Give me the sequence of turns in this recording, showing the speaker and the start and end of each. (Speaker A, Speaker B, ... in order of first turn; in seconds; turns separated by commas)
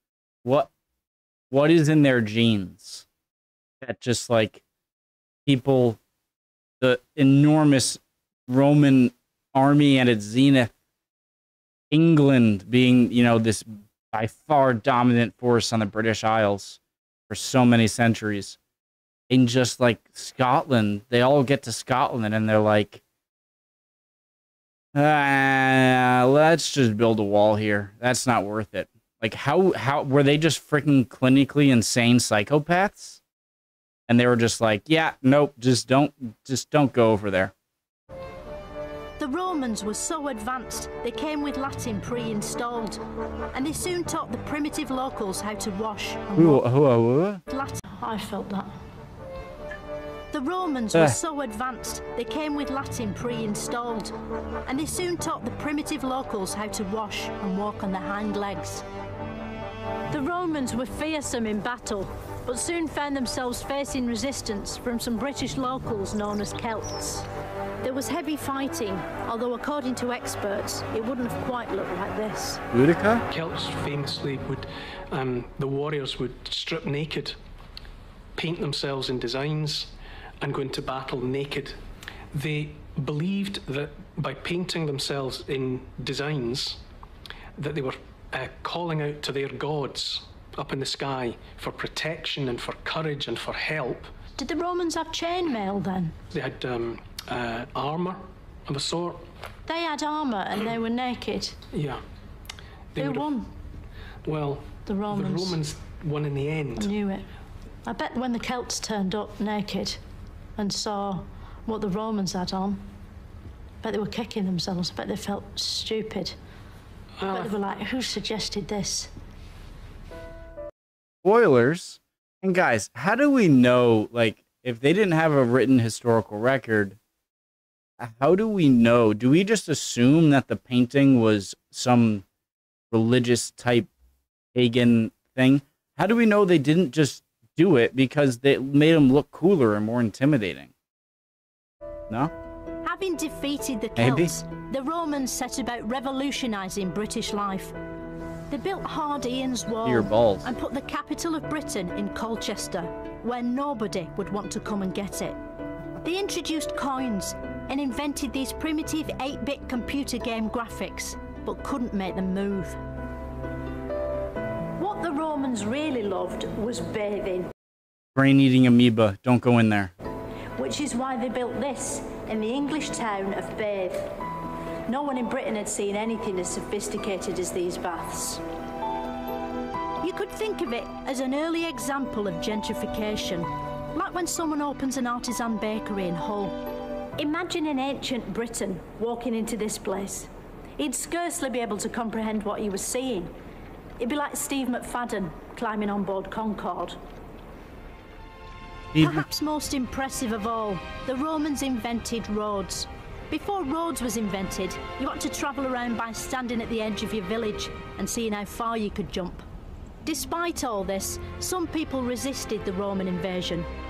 Speaker A: 0.4-0.7, Speaker A: 1.5-3.0, Speaker A: 3.8-4.6, Speaker A: 5.5-6.0, Speaker A: 6.8-10.7, Speaker A: 11.9-16.8, Speaker A: 17.3-18.6, Speaker A: 19.3-23.0, Speaker A: 24.9-33.2, Speaker A: 34.1-37.5, Speaker B: 39.2-43.0, Speaker B: 43.5-46.6, Speaker A: 46.4-47.4, Speaker B: 47.5-48.7, Speaker B: 50.3-54.1, Speaker B: 54.7-58.8, Speaker B: 60.1-67.3, Speaker B: 67.8-72.6, Speaker A: 72.7-73.2, Speaker C: 73.3-77.4, Speaker C: 78.3-81.8, Speaker C: 82.3-86.8, Speaker C: 87.6-94.1, Speaker B: 94.4-96.2, Speaker C: 96.3-99.2, Speaker B: 99.7-101.6, Speaker C: 101.7-102.0, Speaker C: 102.9-103.3, Speaker B: 103.0-103.5, Speaker C: 104.2-106.9, Speaker B: 104.8-105.6, Speaker B: 106.8-107.3, Speaker B: 107.8-110.0, Speaker B: 110.6-112.8, Speaker B: 113.8-116.4, Speaker C: 117.2-117.5, Speaker B: 117.3-119.1, Speaker A: 121.2-127.0, Speaker A: 128.0-132.2, Speaker A: 132.9-133.9, Speaker A: 134.5-140.7, Speaker B: 142.8-147.7, Speaker A: 144.0-144.3, Speaker B: 148.5-155.4, Speaker A: 149.8-150.4, Speaker B: 156.0-162.8, Speaker B: 164.8-167.5, Speaker A: 168.2-169.9, Speaker B: 170.6-174.2, Speaker B: 174.9-178.4, Speaker B: 180.0-186.6, Speaker B: 187.2-193.3, Speaker B: 194.0-197.0, Speaker A: 198.9-199.2, Speaker B: 199.0-209.4, Speaker B: 210.0-213.7